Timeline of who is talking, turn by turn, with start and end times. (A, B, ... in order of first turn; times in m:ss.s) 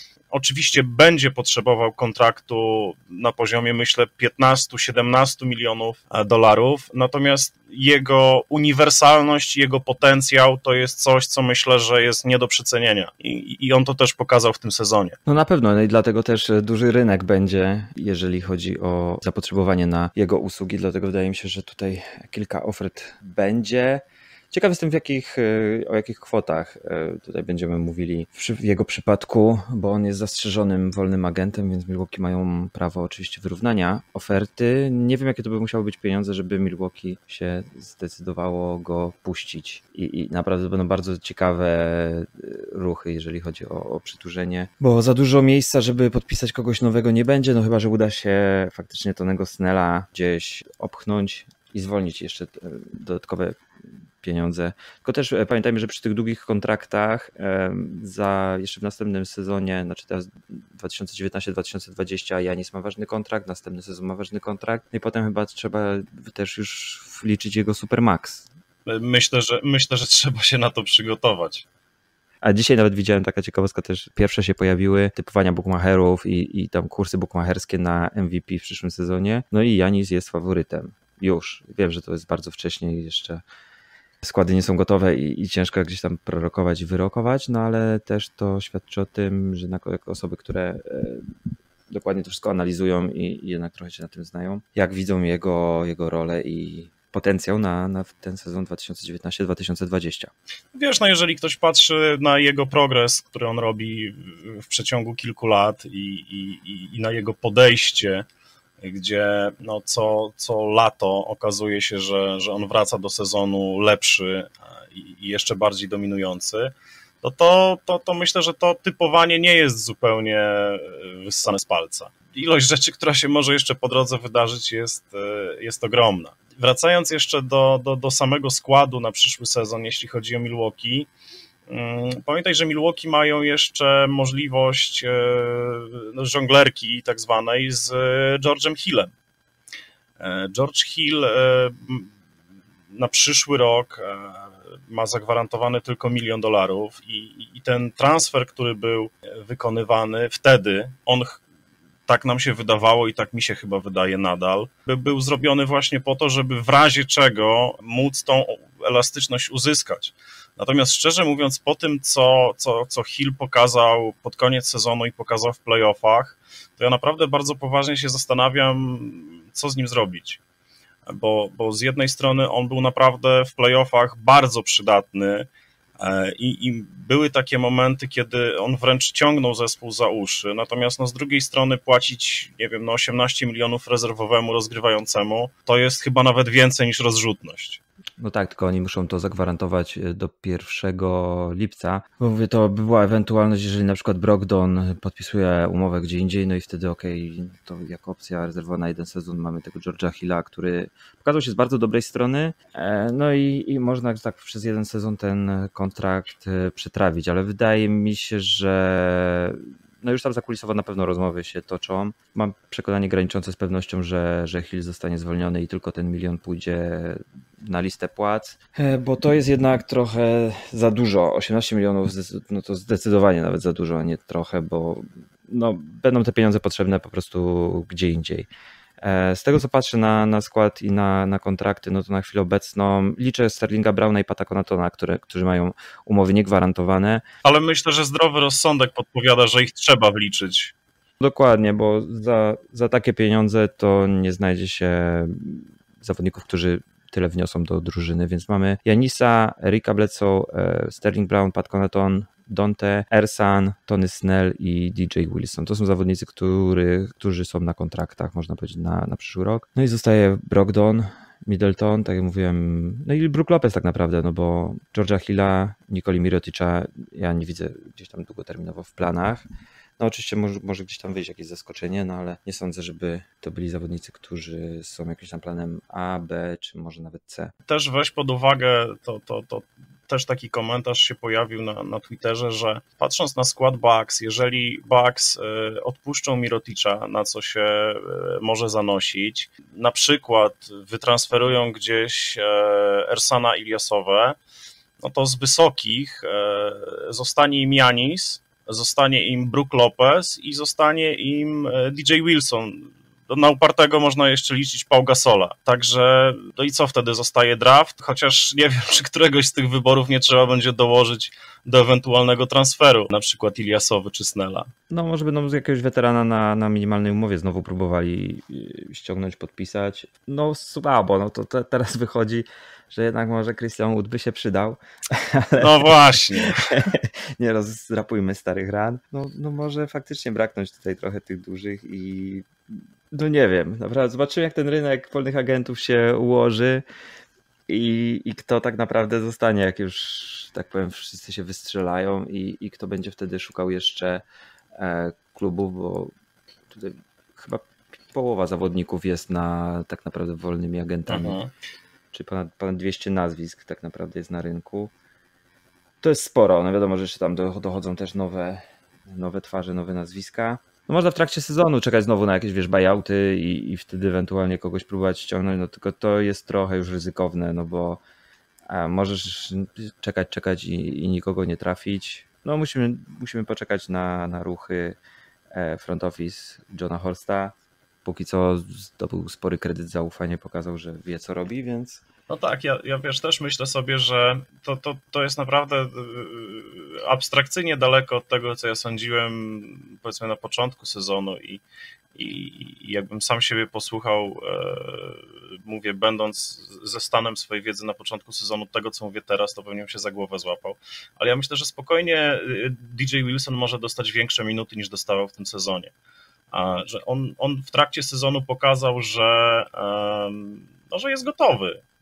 0:00.3-0:15.2 A
0:15.3-0:53.6 B
0:54.2-1:08.5 B
1:08.9-1:11.6 A
1:12.4-1:23.4 B
1:24.2-1:31.3 B
1:31.9-1:40.3 B
1:40.7-1:48.2 A
1:48.8-2:11.1 A
2:11.7-2:19.1 A
2:20.2-2:22.1 A
2:22.9-2:31.4 A
2:32.1-2:50.4 A
2:51.1-2:55.5 A
2:56.0-3:07.8 A
3:08.2-3:48.5 B
3:49.0-3:57.2 B
3:57.4-4:00.7 A
4:01.2-4:29.5 B
4:30.0-4:37.5 B
4:37.7-4:54.4 A
4:55.0-5:14.7 A
5:14.9-5:36.8 B
5:25.6-5:26.8 A
5:37.7-5:44.2 B
5:44.8-5:46.1 B
5:46.7-5:51.4 B
5:51.1-5:51.5 A
5:52.1-5:54.9 B
5:56.0-6:08.0 B
6:08.7-6:15.0 B
6:15.5-6:22.0 B
6:22.3-6:31.6 A
6:32.2-6:45.9 A
6:46.5-6:51.8 A